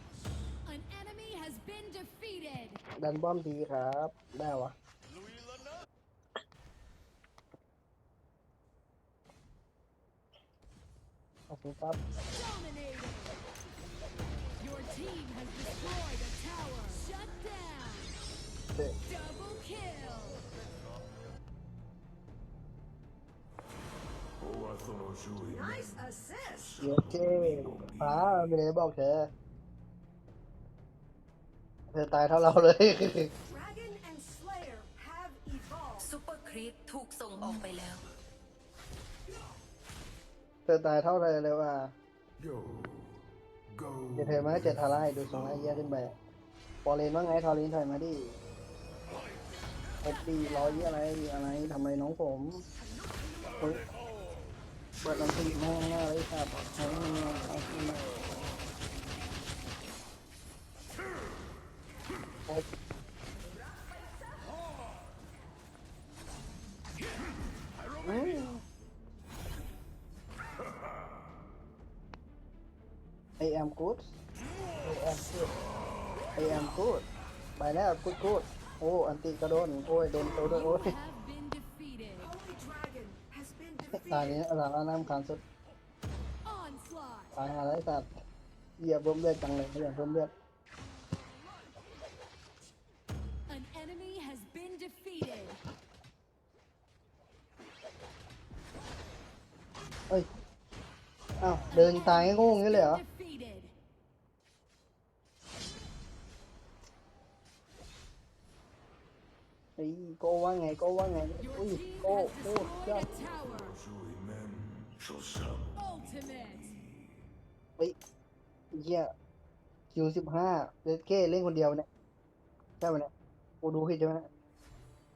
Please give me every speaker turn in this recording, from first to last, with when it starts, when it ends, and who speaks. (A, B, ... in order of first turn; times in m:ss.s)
0:00.6-0:02.8 A
0:03.0-0:04.7 B
0:11.5-0:12.0 B
0:12.2-0:13.3 A
0:14.6-0:18.1 A
0:19.0-0:20.4 A
0:24.4-0:28.5 C
0:25.6-0:26.6 D
0:26.8-0:29.3 B
0:31.9-0:33.3 B
0:33.5-0:36.0 D
0:36.0-0:38.0 E
0:40.7-0:41.9 B
0:42.4-0:45.8 C
0:44.1-0:46.1 B
0:46.8-0:48.4 B
0:50.0-0:52.6 B
0:50.3-0:50.9 A
0:53.6-0:53.8 B
0:55.0-0:58.0 B
1:08.0-1:08.6 B
1:13.4-1:14.2 B
1:14.8-1:15.5 B
1:16.4-1:17.0 B
1:17.6-1:20.9 B
1:20.5-1:22.3 A
1:22.3-1:24.4 D
1:23.9-1:25.4 B
1:26.4-1:27.4 A
1:27.4-1:28.2 B
1:28.8-1:30.3 B
1:33.5-1:35.6 A
1:41.4-1:43.0 B
1:41.7-1:43.7 A
1:49.8-1:53.1 B
1:51.4-1:53.7 A
1:53.1-1:57.3 C
1:55.8-1:56.7 A
1:58.7-1:59.1 B
1:59.9-2:01.8 B
2:02.8-2:03.1 B
2:03.6-2:04.3 B